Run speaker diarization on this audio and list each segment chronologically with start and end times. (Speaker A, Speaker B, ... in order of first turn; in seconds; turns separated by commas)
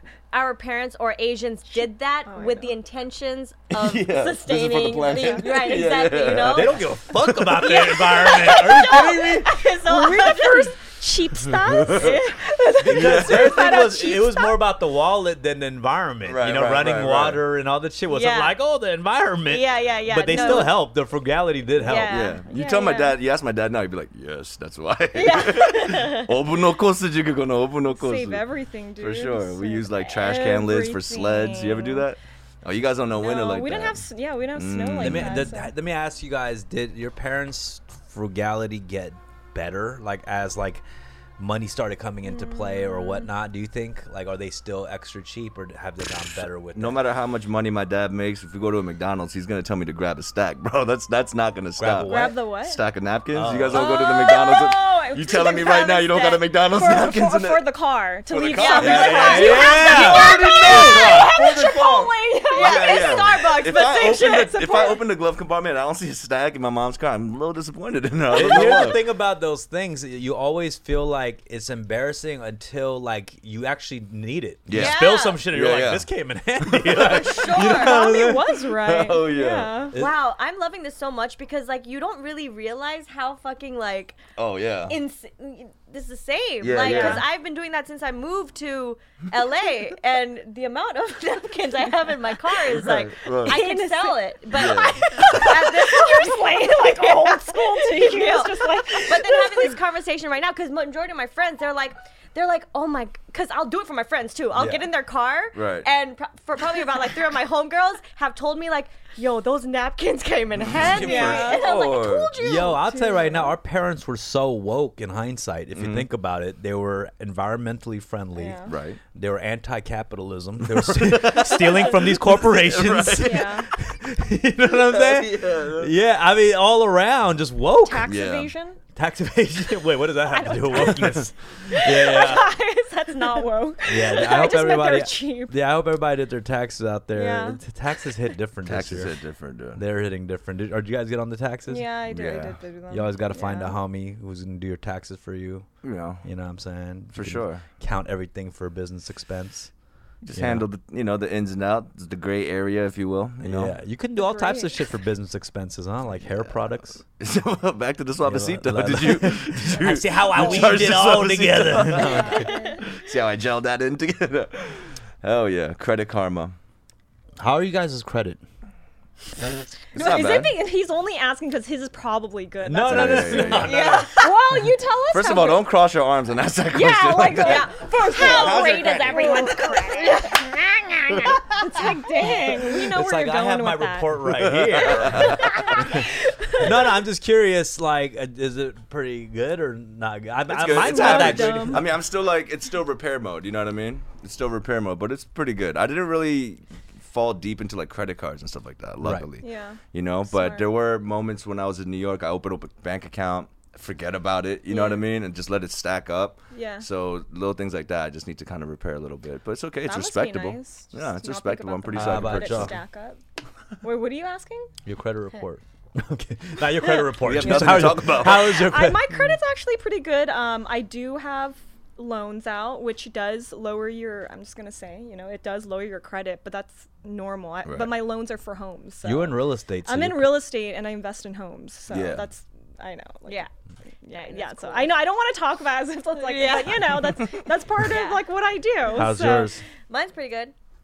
Speaker A: 0.3-6.8, Speaker B: 1.7-2.7, Speaker C: 3.7-7.8, Speaker B: 5.1-5.8, Speaker D: 6.4-9.5, Speaker A: 7.7-10.7, Speaker C: 8.9-9.2, Speaker B: 9.8-14.6, Speaker C: 11.4-12.2, Speaker A: 12.0-12.3, Speaker D: 12.8-22.1, Speaker C: 12.9-13.8, Speaker C: 16.2-17.4, Speaker A: 18.1-18.6, Speaker A: 19.5-20.8, Speaker B: 20.2-20.7, Speaker A: 21.8-22.4, Speaker C: 22.1-28.4, Speaker B: 22.4-23.1, Speaker A: 25.1-26.3, Speaker B: 27.9-32.0, Speaker C: 29.0-35.5, Speaker B: 33.2-35.7, Speaker D: 35.0-40.8, Speaker D: 41.4-47.0, Speaker B: 42.2-43.3, Speaker C: 46.7-57.6, Speaker D: 51.8-52.4, Speaker B: 52.1-52.8, Speaker D: 53.3-53.9, Speaker B: 53.7-65.0, Speaker C: 58.3-69.0, Speaker A: 58.5-64.6, Speaker D: 58.7-61.3, Speaker D: 68.3-78.4, Speaker C: 74.7-76.0, Speaker A: 74.7-75.4, Speaker C: 76.6-79.8, Speaker A: 76.9-78.2, Speaker B: 77.6-79.9, Speaker A: 79.9-84.2, Speaker C: 84.4-85.0, Speaker A: 84.9-112.8, Speaker C: 86.6-87.2, Speaker B: 86.8-87.2, Speaker C: 92.7-93.6, Speaker B: 93.4-99.8, Speaker C: 94.5-95.5, Speaker D: 104.5-104.8, Speaker C: 105.5-105.9, Speaker C: 110.6-112.3, Speaker B: 111.0-113.5, Speaker D: 112.4-118.6, Speaker C: 115.7-116.1, Speaker B: 118.3-118.7, Speaker C: 118.7-119.0, Speaker D: 119.1-128.1, Speaker C: 120.6-123.6, Speaker B: 123.2-123.7, Speaker C: 124.6-126.0, Speaker B: 127.8-128.8, Speaker C: 128.0-128.5, Speaker D: 128.9-132.5, Speaker B: 130.3-130.9, Speaker C: 130.7-131.2, Speaker B: 131.7-135.6, Speaker D: 133.8-139.1, Speaker B: 137.1-137.6, Speaker C: 138.6-139.8, Speaker D: 139.7-141.8, Speaker B: 141.7-143.8, Speaker C: 142.1-142.6, Speaker D: 142.9-145.7, Speaker C: 145.8-146.2, Speaker D: 146.2-149.7, Speaker C: 147.1-147.6, Speaker C: 150.2-153.8, Speaker D: 150.3-150.7, Speaker D: 153.4-157.0, Speaker B: 154.2-154.8, Speaker C: 156.2-156.5, Speaker C: 157.1-166.6, Speaker D: 158.2-162.5, Speaker B: 160.4-160.7, Speaker B: 161.8-162.9, Speaker D: 167.4-168.4, Speaker C: 169.4-170.6, Speaker B: 169.9-175.7, Speaker D: 172.6-174.1, Speaker C: 172.8-174.0, Speaker A: 173.6-174.2, Speaker C: 175.1-180.1, Speaker B: 176.7-186.9, Speaker A: 177.3-180.4, Speaker C: 181.1-181.4, Speaker D: 182.9-186.1, Speaker C: 184.4-185.7, Speaker D: 186.6-191.8, Speaker C: 190.5-212.8, Speaker B: 190.7-191.9, Speaker D: 199.0-199.3, Speaker B: 199.4-200.7, Speaker B: 204.7-205.0, Speaker B: 206.5-206.8, Speaker B: 209.8-213.2, Speaker D: 211.9-212.8, Speaker B: 213.8-214.7, Speaker D: 214.8-219.2, Speaker B: 216.8-233.4, Speaker C: 217.2-218.7, Speaker C: 227.6-227.9, Speaker D: 229.0-230.4, Speaker C: 231.9-232.2, Speaker B: 234.0-239.5, Speaker A: 234.1-234.9, Speaker A: 236.2-237.2, Speaker C: 237.0-237.4, Speaker A: 237.8-238.3, Speaker D: 238.9-239.6, Speaker A: 239.9-240.5